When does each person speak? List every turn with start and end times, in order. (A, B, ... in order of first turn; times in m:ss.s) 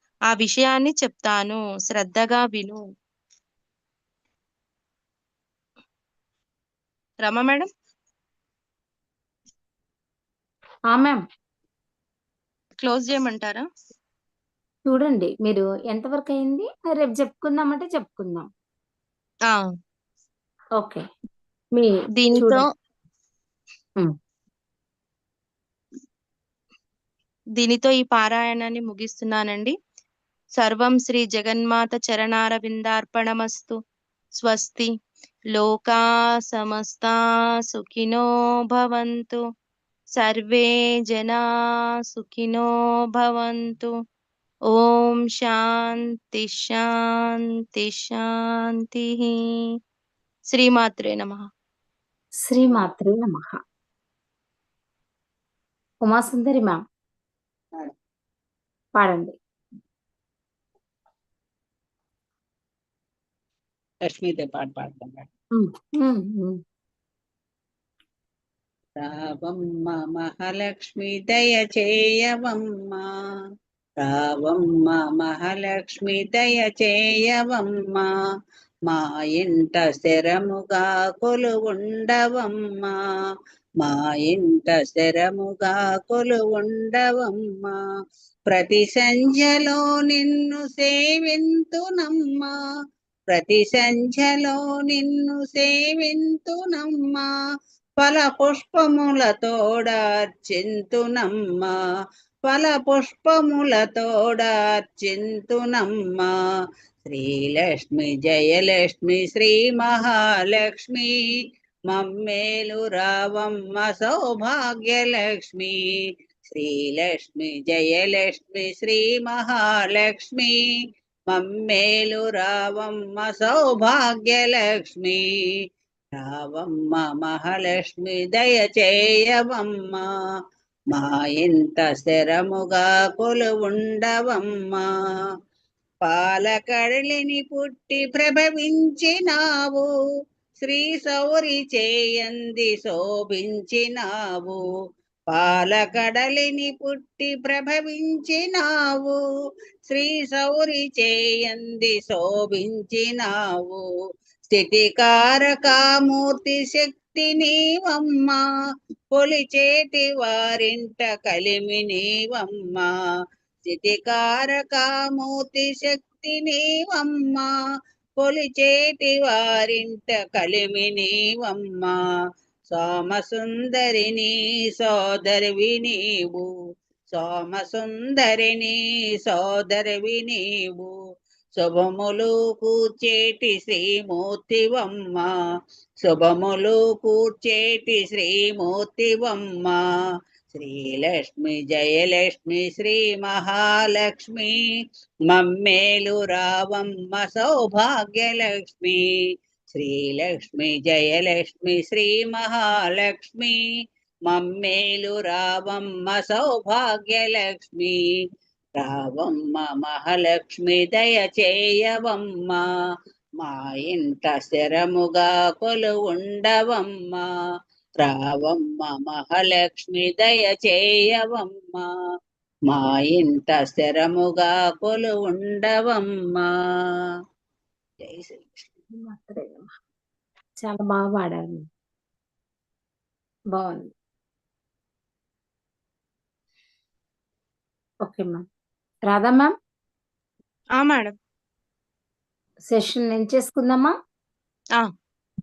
0:00.3-0:02.8 A
0:07.2-0:07.7 A
0:10.9-0:11.2 B
0:12.8-0:13.6 A
0:14.8-0:18.5 B
0:20.8-0:21.0 B
0:21.7-0:22.6 B
0:22.2-0:22.6 A
0:27.6-0:29.7 A
0:30.6-0:33.8 A
0:34.4-0:34.9 A
0:35.5-0:39.4 A
0:40.2-0:41.4 A
0:42.1-0:43.9 A
0:44.7-0:49.4 A
0:50.5-0:51.5 A
0:52.4-0:53.6 B
0:56.0-0:56.8 B
0:59.0-0:59.3 B
1:04.0-1:05.2 C
1:05.5-1:06.6 B
1:09.0-1:13.1 C
1:14.0-1:18.1 C
1:18.9-1:23.0 C
1:23.8-1:27.8 C
1:28.5-1:32.5 C
1:33.3-1:37.3 C
1:38.0-1:41.7 C
1:42.5-1:46.3 C
1:47.0-1:51.1 C
1:51.9-2:00.6 C
2:01.3-2:05.5 C
2:06.2-2:10.0 C
2:10.9-2:14.8 C
2:16.0-2:19.9 C
2:20.6-2:24.6 C
2:25.3-2:29.2 C
2:29.8-2:33.8 C
2:34.5-2:38.4 C
2:39.1-2:42.9 C
2:43.6-2:47.5 C
2:48.2-2:52.0 C
2:52.7-2:56.5 C
2:57.1-3:00.9 C
3:01.6-3:05.3 C
3:06.0-3:09.8 C
3:10.5-3:14.6 C
3:15.3-3:19.0 C
3:19.7-3:23.6 C
3:24.3-3:28.0 C
3:28.8-3:32.6 C
3:33.4-3:37.3 C
3:38.0-3:41.9 C
3:42.7-3:46.5 C
3:48.0-3:48.7 C
3:48.9-3:49.7 B
3:50.6-3:51.6 B
3:53.5-3:53.9 B
3:58.0-3:58.4 B
3:59.1-3:59.5 B
4:00.8-4:01.1 A
4:02.7-4:03.9 B